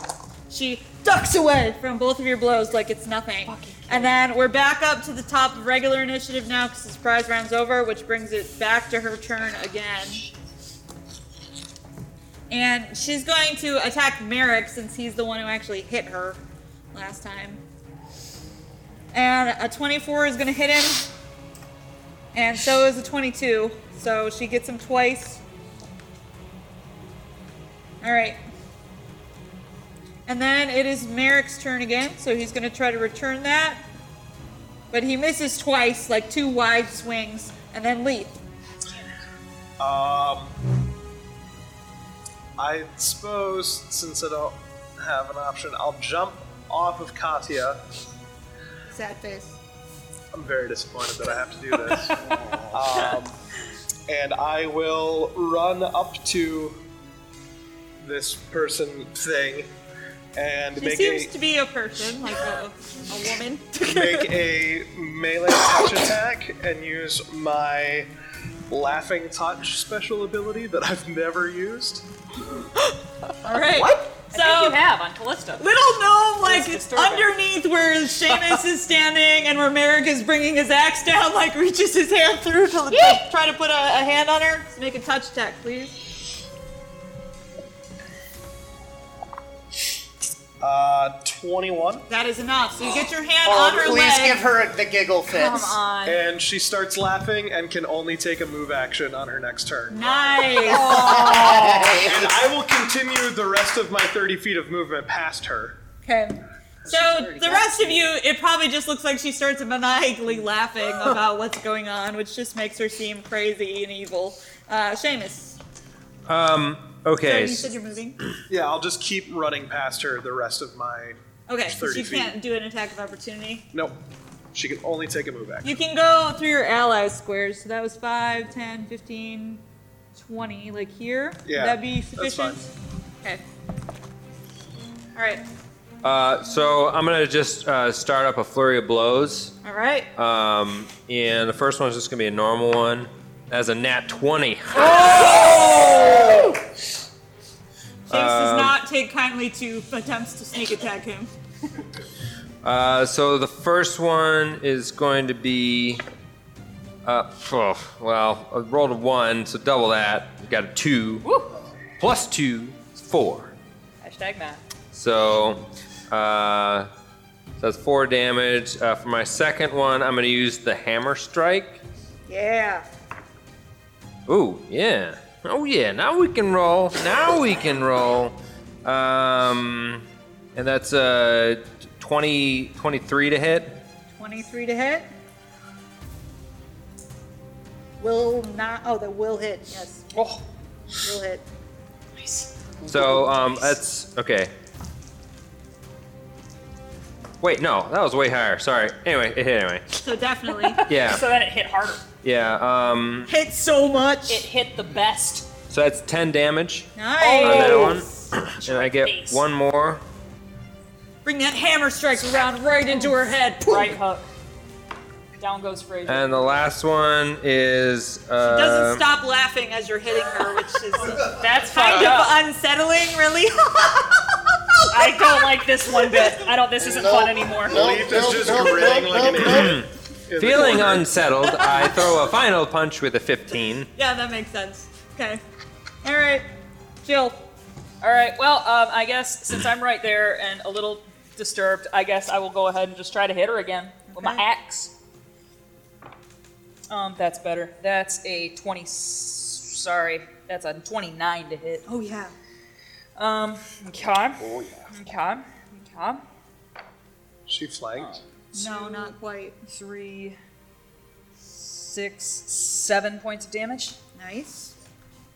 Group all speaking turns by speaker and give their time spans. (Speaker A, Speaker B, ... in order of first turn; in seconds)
Speaker A: 0.5-10.2, 12.5-16.4, 16.9-17.6, 19.1-21.1, 22.3-25.4, 28.0-28.4, 30.3-33.8, 34.9-38.3, 48.9-49.6, 60.8-64.3, 73.4-74.8, 75.6-85.9, 92.1-94.4, 99.9-101.2, 106.0-115.6, 117.2-118.2, 121.5-123.7, 125.6-129.6, 130.2-132.7, 135.1-135.4, 139.6-140.1, 148.1-151.3, 172.3-172.8, 184.1-185.1, 188.0-190.0, 191.0-191.4, 200.0-200.8, 203.3-204.4, 206.9-208.3, 211.2-213.9, 218.4-225.2, 231.4-231.9, 233.9-235.4, 236.0-236.4, 237.0-237.4, 244.1-244.4, 251.9-252.3, 258.5-259.6, 264.1-264.7
Speaker B: 3.5-4.2, 73.8-75.6, 76.4-77.4, 82.9-83.2, 95.3-96.2, 100.6-102.0, 144.8-146.6, 161.2-161.5, 164.0-164.6, 190.1-190.4, 192.2-192.5, 200.6-202.1, 204.3-205.5, 207.2-208.0, 208.6-209.4, 212.9-214.2, 215.4-216.5, 221.1-222.4, 224.9-227.9, 238.0-244.9, 246.9-251.8, 253.2-256.2, 257.9-259.1, 259.7-260.4, 261.4-264.0
Speaker C: 39.8-40.5, 42.6-47.8, 50.3-52.1, 52.7-53.4, 54.1-56.8, 58.0-59.7, 60.4-61.3, 63.8-68.1, 68.7-72.1, 90.6-92.0, 96.0-105.8, 118.5-122.4, 124.5-125.7, 131.5-132.7, 227.7-231.2, 257.5-258.2
Speaker D: 52.2-52.9, 93.4-95.8, 100.8-102.4, 106.8-108.1, 192.8-193.6, 226.8-229.8, 254.4-254.9
Speaker E: 116.3-117.7, 136.0-139.6, 140.2-146.2, 148.1-148.8, 152.6-156.0, 157.1-161.2, 162.0-163.5, 164.9-166.9, 167.6-171.8, 174.3-180.1, 180.6-183.8, 192.9-194.5, 197.4-199.8, 200.9-201.2, 202.2-203.3, 205.7-210.0, 216.1-219.1, 229.5-233.9